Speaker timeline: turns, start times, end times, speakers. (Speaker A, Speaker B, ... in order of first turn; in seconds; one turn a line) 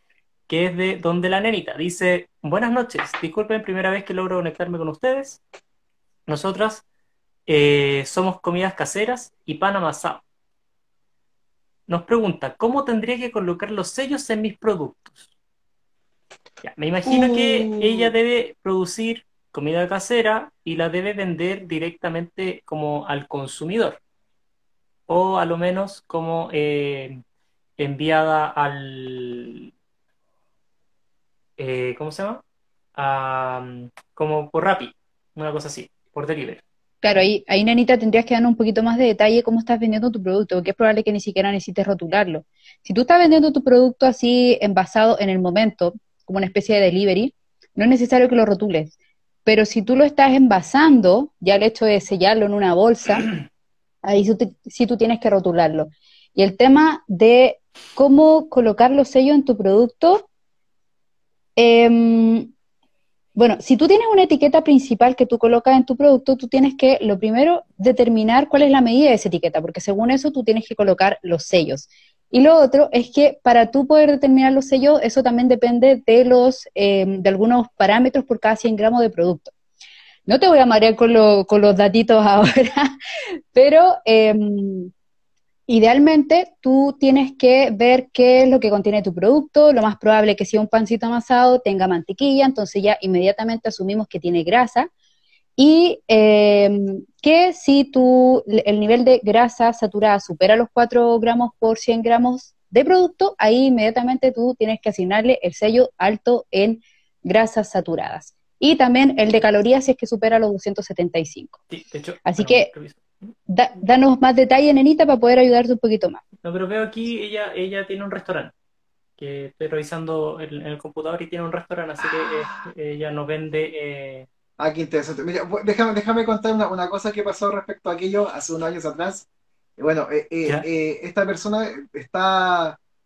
Speaker A: 0.5-5.4
Speaker A: 6.3-6.8
Speaker A: 7.5-10.2
Speaker A: 11.9-15.2
Speaker A: 16.6-24.0
Speaker B: 17.0-18.1
Speaker A: 25.1-27.2
Speaker A: 27.8-29.7
Speaker A: 31.6-32.4
Speaker A: 33.0-36.6
Speaker C: 37.0-48.9
Speaker C: 49.4-53.3
Speaker C: 54.0-60.3
Speaker C: 61.5-62.5
Speaker C: 63.4-79.5
Speaker C: 80.2-82.9
Speaker C: 83.5-84.9
Speaker C: 85.7-94.9
Speaker C: 95.6-111.5
Speaker A: 111.7-113.3
Speaker C: 112.2-112.7
Speaker C: 113.5-116.2
Speaker A: 116.4-118.5
Speaker A: 119.2-124.3
Speaker B: 124.6-129.3
Speaker B: 129.8-132.8